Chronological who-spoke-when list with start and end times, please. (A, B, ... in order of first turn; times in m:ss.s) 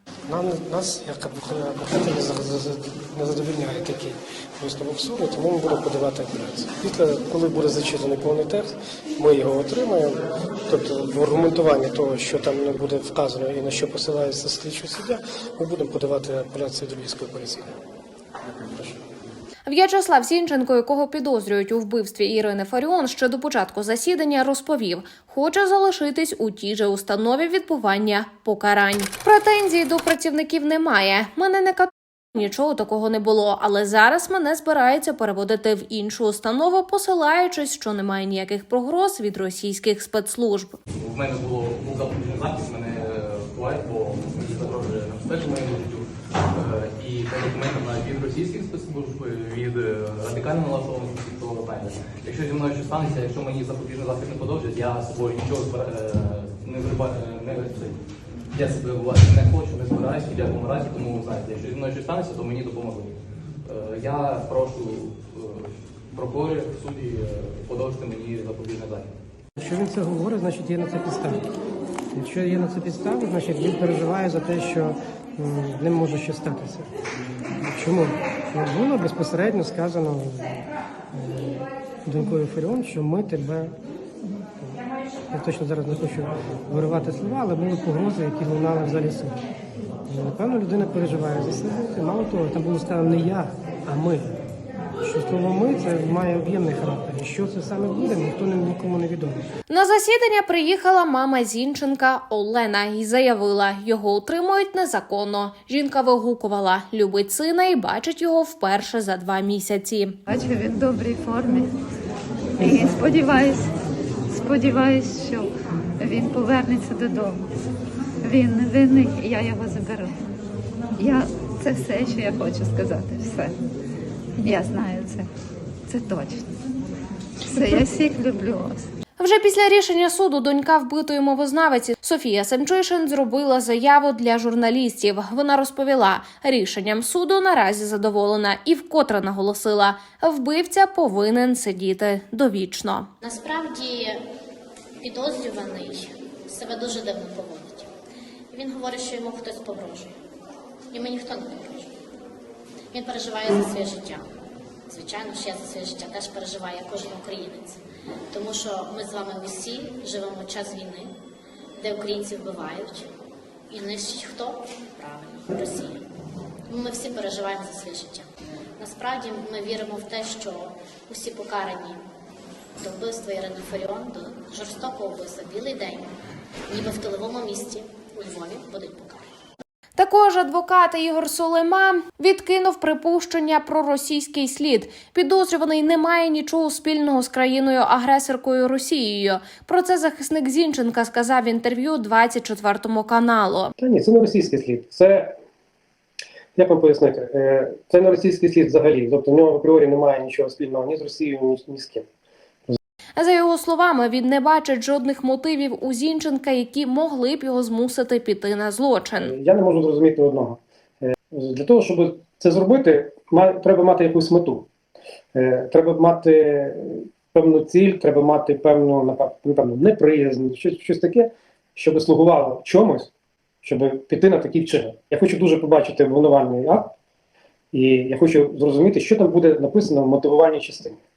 0:00.3-0:17.7 A
0:18.6-0:19.0 A
0:19.6-0:40.8 B
0:41.0-0:58.0 C
0:58.5-1:09.1 C
1:09.6-1:11.4 A
1:12.1-1:16.9 A
1:17.6-1:20.6 A
1:21.1-1:23.8 A
1:25.3-1:29.4 A
1:30.1-1:34.3 A
1:35.0-1:39.4 A
1:39.7-1:50.2 B
1:50.3-1:51.7 D
1:52.6-1:53.7 D
1:54.3-1:57.5 D
1:58.2-2:00.1 D
2:01.0-2:03.5 D
2:04.4-2:05.3 D
2:05.9-2:06.4 D
2:07.5-2:08.8 D
2:09.2-2:23.1 B
2:23.2-2:24.2 E
2:25.0-2:27.9 E
2:28.5-2:30.1 E
2:30.9-2:31.9 E
2:32.9-2:34.2 E
2:34.9-2:37.8 E
2:38.3-2:41.1 E
2:41.8-2:43.1 E
2:43.7-2:46.0 E
2:46.7-2:48.3 E
2:48.8-2:52.0 E
2:52.8-2:56.1 E
2:56.7-2:59.3 E
3:00.0-3:13.7 B
3:13.8-3:15.3 F
3:16.6-3:22.0 F
3:23.2-3:29.3 B
3:29.2-3:34.7 F
3:35.4-3:43.1 F
3:43.6-3:46.9 F
3:47.7-3:51.0 F